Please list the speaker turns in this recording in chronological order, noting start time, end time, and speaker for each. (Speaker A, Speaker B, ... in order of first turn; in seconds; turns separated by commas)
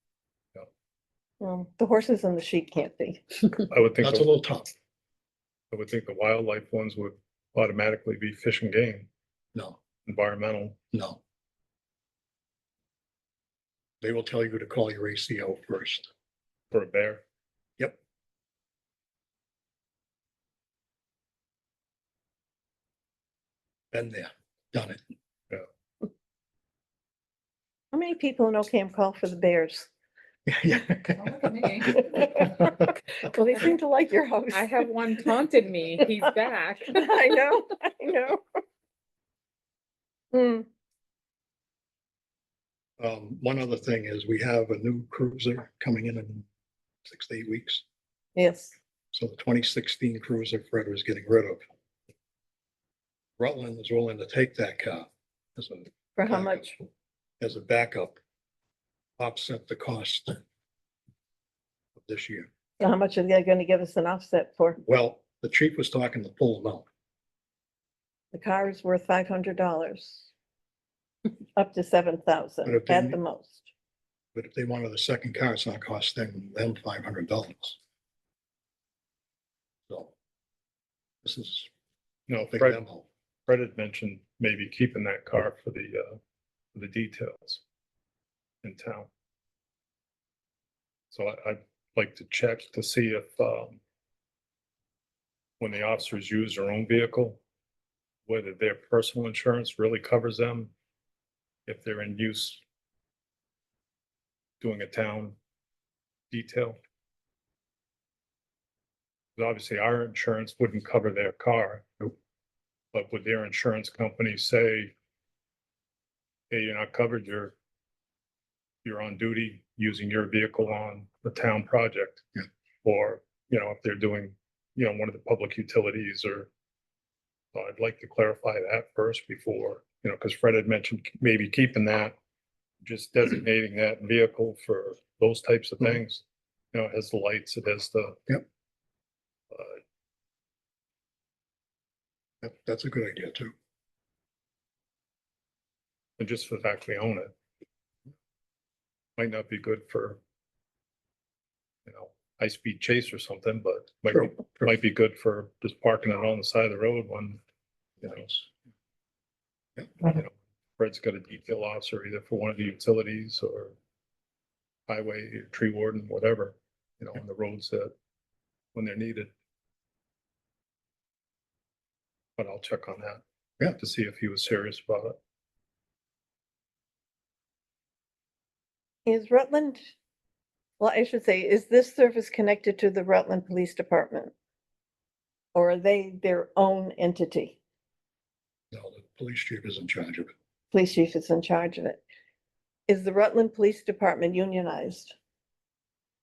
Speaker A: 1.4-3.2, Speaker B: 3.7-4.3, Speaker C: 4.0-4.7, Speaker B: 5.7-9.1, Speaker B: 10.0-10.8, Speaker C: 10.9-11.2, Speaker C: 14.0-16.1, Speaker B: 16.7-17.2, Speaker C: 23.9-25.0, Speaker A: 27.9-29.9, Speaker C: 30.5-32.9, Speaker D: 31.3-32.0, Speaker A: 33.3-34.7, Speaker D: 34.5-37.6, Speaker A: 36.9-38.4, Speaker A: 40.3-40.6, Speaker C: 43.0-46.5, Speaker C: 47.0-47.8, Speaker A: 48.4-48.7, Speaker C: 49.1-51.6, Speaker C: 53.4-56.8, Speaker A: 56.3-56.7, Speaker C: 57.4-58.2, Speaker C: 59.2-60.4, Speaker C: 62.0-62.5, Speaker A: 62.8-64.7, Speaker C: 64.8-66.8, Speaker A: 68.3-70.3, Speaker A: 71.5-73.7, Speaker C: 72.6-73.2, Speaker C: 74.3-77.8, Speaker C: 79.9-80.1, Speaker C: 81.2-81.7, Speaker B: 82.3-82.8, Speaker C: 82.5-83.1, Speaker B: 83.5-86.2, Speaker B: 86.7-87.6, Speaker B: 88.6-89.1, Speaker B: 91.1-93.8, Speaker B: 95.6-97.4, Speaker B: 98.3-100.7, Speaker B: 101.7-102.6, Speaker B: 104.6-105.4, Speaker B: 106.3-106.8, Speaker B: 109.4-112.1, Speaker B: 112.9-114.9, Speaker B: 116.5-117.5, Speaker B: 118.8-126.5, Speaker B: 127.5-132.2, Speaker B: 132.8-138.4, Speaker B: 139.5-139.8, Speaker C: 142.4-143.5, Speaker B: 146.2-147.3, Speaker B: 149.2-150.2, Speaker B: 151.8-157.4, Speaker C: 154.2-154.7, Speaker B: 158.0-158.5, Speaker B: 160.0-163.8, Speaker B: 164.9-167.9, Speaker B: 168.7-169.3, Speaker B: 172.4-173.2, Speaker B: 173.8-175.2, Speaker A: 179.1-179.9, Speaker A: 180.8-184.3, Speaker A: 185.5-187.6, Speaker C: 188.7-190.3, Speaker A: 190.7-192.0, Speaker A: 192.9-195.1